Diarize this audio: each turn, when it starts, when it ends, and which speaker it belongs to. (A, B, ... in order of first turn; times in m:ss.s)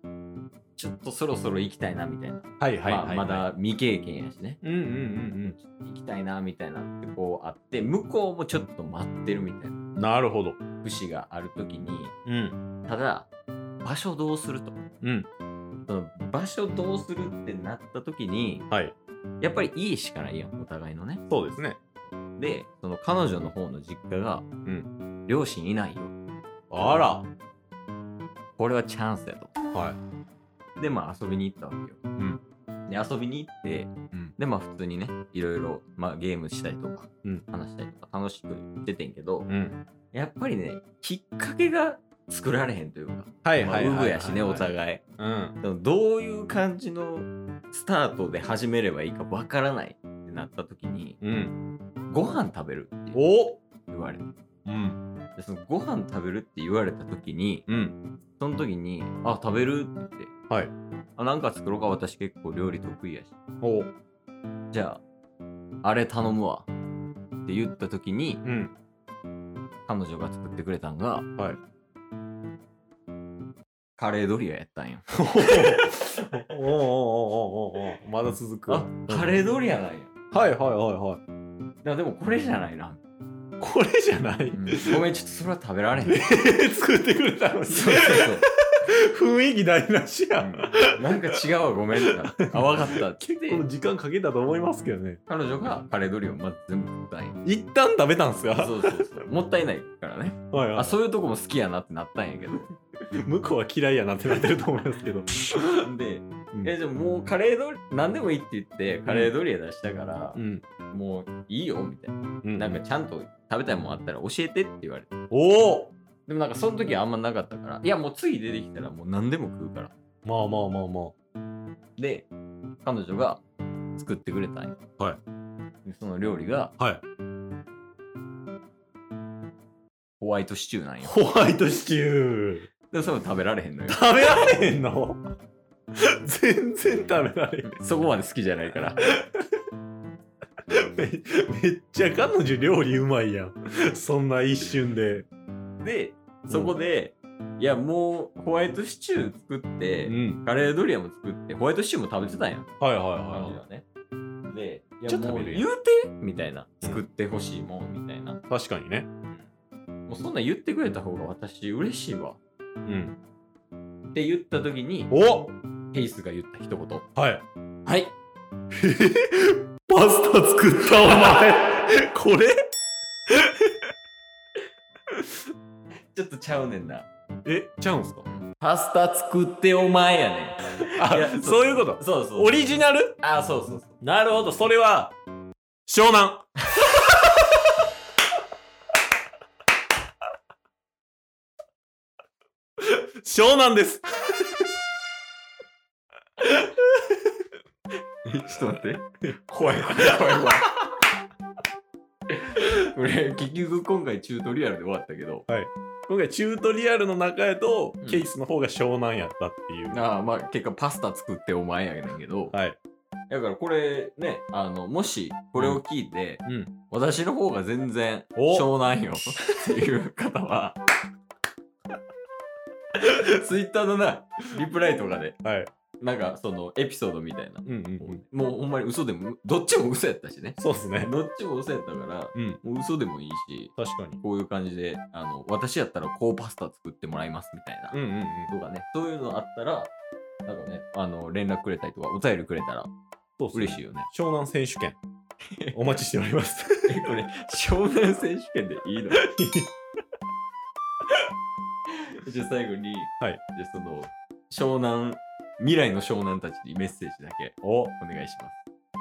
0:00.8-0:04.6 A
0:02.6-0:03.5 B
0:04.6-0:05.6 B
0:05.4-0:09.8 A
0:10.0-0:10.6 B
0:10.8-0:12.1 A
0:12.2-0:12.6 B
0:12.9-0:13.3 A
0:13.8-0:14.8 A
0:15.0-0:15.3 B
0:15.9-0:18.7 A
0:19.4-0:21.2 A
0:21.3-0:21.8 B
0:22.4-0:24.4 A
0:25.3-0:26.1 A
0:26.7-0:27.3 B
0:28.6-0:29.5 A
0:30.8-0:32.0 A
0:32.9-0:39.5 A
0:39.5-0:39.8 B
0:40.1-0:45.0 A
0:43.4-0:45.6 B
0:45.6-0:51.2 A
0:51.2-0:51.5 B
0:52.1-0:53.2 A
0:53.1-0:53.6 B
0:53.9-0:54.3 A
0:54.6-0:55.0 B
0:55.4-0:57.6 A
0:57.7-0:57.9 B
0:58.4-1:00.3 A
1:01.2-1:03.4 A
1:03.6-1:03.9 B
1:04.7-1:05.0 A
1:05.8-1:06.7 A
1:07.4-1:08.4 A
1:08.4-1:08.7 B
1:09.9-1:11.3 A
1:14.0-1:15.7 A
1:15.1-1:19.4 B
1:18.7-1:20.1 A
1:20.3-1:21.2 B
1:21.8-1:23.0 A
1:23.6-1:25.0 B
1:24.5-1:26.2 A
1:26.1-1:31.2 B
1:27.7-1:28.4 A
1:30.4-1:33.6 A
1:32.0-1:35.2 B
1:35.3-1:37.4 A
1:37.4-1:39.1 B
1:38.5-1:42.7 A
1:40.5-1:41.0 B
1:43.2-1:45.7 B
1:45.8-1:55.1 A
1:49.1-1:49.3 B
1:50.3-1:50.6 B
1:52.4-1:52.8 B
1:55.3-1:55.9 B
1:56.3-1:59.9 A
2:00.2-2:01.1 B
2:02.0-2:02.3 A
2:02.8-2:03.4 A
2:04.0-2:04.8 A
2:05.8-2:06.7 A
2:10.2-2:11.2 A
2:11.0-2:12.7 B
2:12.9-2:14.1 A
2:13.9-2:15.2 B
2:16.0-2:17.8 B
2:17.6-2:19.0 A
2:19.0-2:19.4 B
2:20.7-2:25.3 B
2:25.8-2:32.7 A
2:26.5-2:26.8 B
2:30.0-2:30.4 B
2:32.8-2:33.6 B
2:33.3-2:33.8 A
2:34.5-2:38.4 A
2:35.1-2:35.6 B
2:38.5-2:39.1 B
2:40.1-2:42.4 A
2:42.8-2:43.1 B
2:44.1-2:45.2 A
2:45.1-2:45.5 B
2:45.9-2:47.0 A
2:47.2-2:47.4 B
2:47.8-2:48.1 A
2:48.7-2:52.5 B
2:53.3-2:53.8 B
2:56.1-2:57.1 A
2:57.4-2:58.2 B
2:58.3-3:04.0 A
3:00.8-3:03.1 B
3:04.0-3:05.1 B
3:05.9-3:07.0 B
3:12.8-3:14.6 B
3:18.2-3:20.8 A
3:19.9-3:20.2 B
3:22.3-3:25.5 A
3:25.5-3:30.0 B
3:28.0-3:28.3 A
3:29.9-3:32.6 A
3:32.5-3:32.8 B
3:33.3-3:40.8 A
3:35.6-3:35.8 B
3:36.4-3:36.7 B
3:38.4-3:38.7 B
3:43.0-3:45.4 A
3:45.4-3:45.7 B
3:46.0-3:59.9 A
3:47.6-3:48.2 B
3:50.6-3:51.1 B
3:52.3-3:52.6 B
3:53.8-3:54.2 B
3:57.9-3:58.5 B
4:00.4-4:02.9 A
4:03.4-4:05.0 B
4:03.5-4:04.1 A
4:05.5-4:06.0 A
4:05.7-4:07.1 B
4:06.9-4:09.2 A
4:09.2-4:09.7 B
4:12.1-4:18.6 A
4:17.6-4:17.9 B